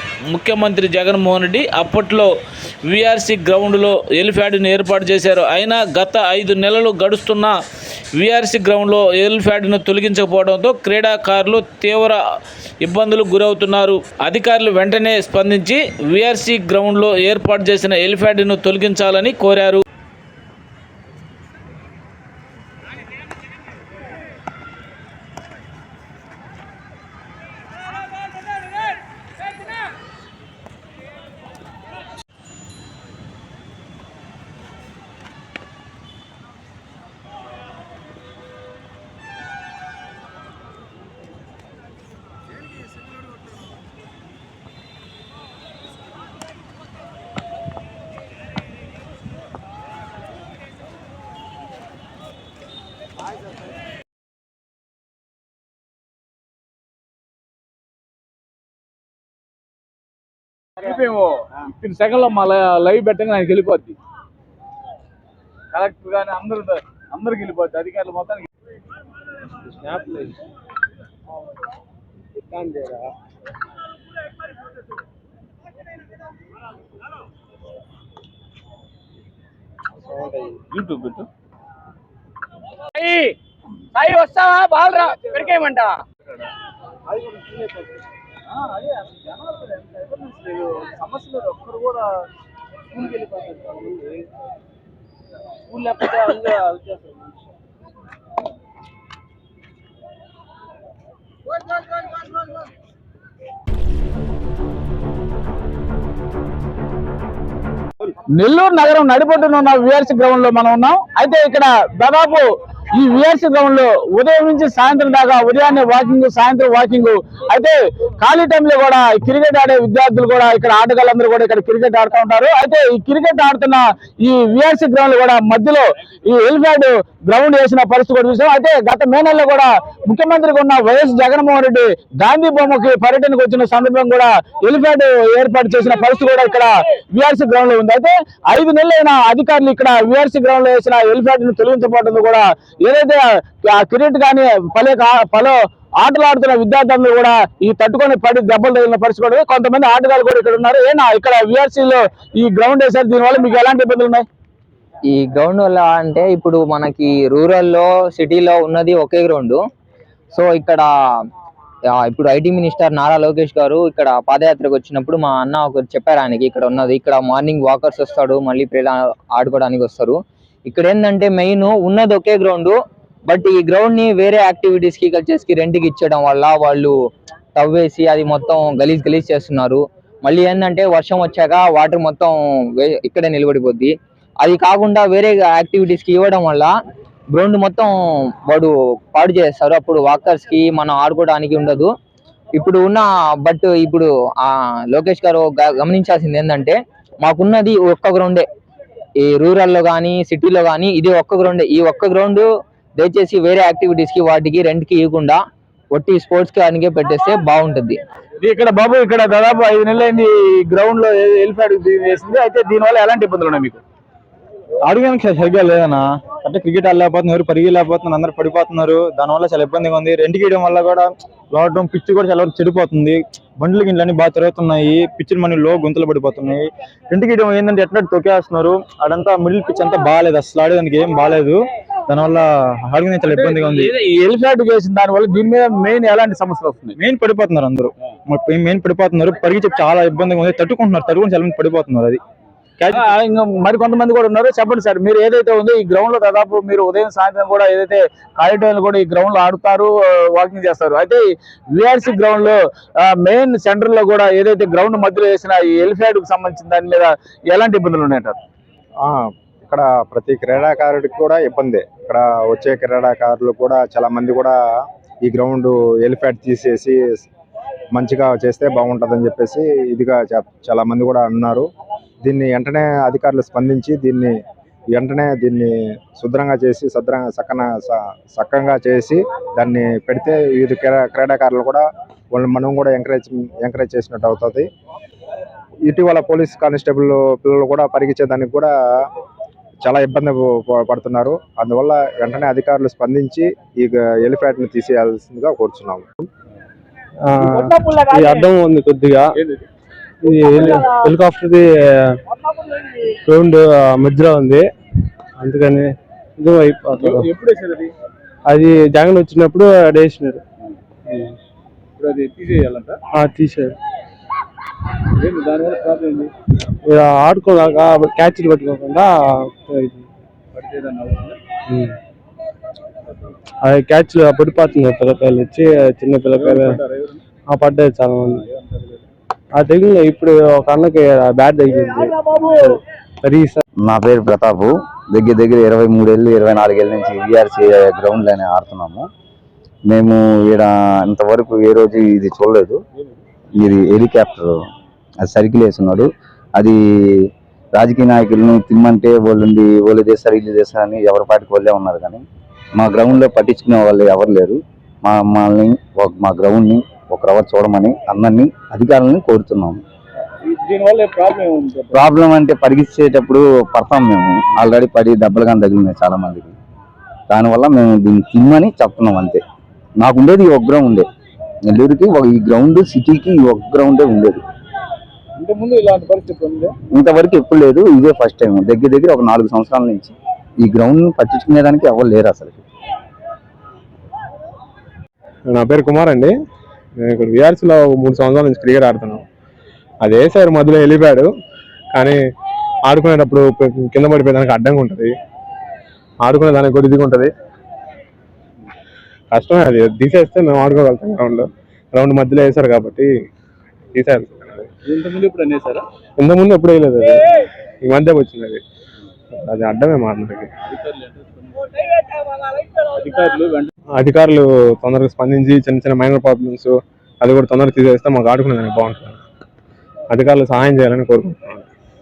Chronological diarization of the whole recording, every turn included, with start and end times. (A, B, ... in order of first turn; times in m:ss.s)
0:00.3-0:02.3 A
0:02.9-0:07.5 A
0:08.2-0:12.2 A
0:12.8-0:19.8 A
1:00.8-1:04.0 B
1:05.7-1:08.4 B
1:09.7-1:10.4 C
1:12.4-1:13.1 C
1:20.7-1:21.3 B
1:23.0-1:23.3 D
1:24.0-1:26.0 D
1:25.2-1:25.7 B
1:28.5-1:32.1 B
1:32.9-1:34.2 B
1:35.7-1:37.2 B
1:48.4-2:34.2 B
2:35.1-2:39.6 E
2:40.3-2:40.9 E
2:42.0-2:52.8 E
2:53.3-2:56.9 E
2:57.6-3:06.7 E
3:07.3-3:11.9 E
3:12.6-3:18.4 E
3:19.2-3:22.5 E
3:23.0-3:25.4 E
3:25.9-3:28.0 E
3:28.4-3:33.8 B
3:34.9-3:53.9 F
3:53.3-3:56.9 B
3:57.0-4:02.2 F
4:02.8-4:03.1 F
4:02.9-4:18.4 B
4:19.0-4:24.5 G
4:25.2-4:27.2 G
4:27.9-4:31.7 G
4:32.2-4:34.4 G
4:34.9-4:44.7 G
4:45.9-4:48.7 G
4:49.8-4:56.1 G
4:57.3-4:59.4 C
4:57.5-4:58.0 B
4:59.4-4:59.7 B
5:00.2-5:02.2 C
5:03.2-5:04.7 C
5:05.4-5:07.2 C
5:07.0-5:07.9 B
5:08.5-5:10.4 C
5:11.1-5:11.4 C
5:12.0-5:13.0 B
5:13.1-5:13.8 C
5:15.2-5:16.3 B
5:16.8-5:20.0 C
5:20.5-5:21.4 B
5:21.7-5:22.0 C
5:23.6-5:26.8 C
5:26.4-5:27.2 B
5:27.5-5:28.4 C
5:28.3-5:29.1 B
5:29.6-5:33.6 C
5:33.8-5:39.1 H
5:39.9-5:42.8 H
5:43.6-5:44.6 H
5:45.2-5:52.2 H
5:52.8-5:59.8 H
6:00.4-6:02.0 B
6:01.9-6:06.6 H
6:07.3-6:09.4 H
6:10.0-6:11.1 H
6:11.6-6:14.4 H
6:15.4-6:16.7 B
6:16.9-6:22.7 H
6:25.5-6:26.3 C
6:27.0-6:29.2 C
6:30.0-6:31.3 C
6:31.9-6:32.2 C
6:32.9-6:35.1 C
6:36.2-6:37.3 C
6:39.3-6:43.1 C
6:43.9-6:44.7 C
6:44.8-6:45.8 B
6:46.2-6:48.6 C
6:49.3-6:50.5 C
6:50.7-6:51.6 B
6:52.8-6:53.7 B
6:54.0-6:59.2 C
7:00.1-7:01.7 C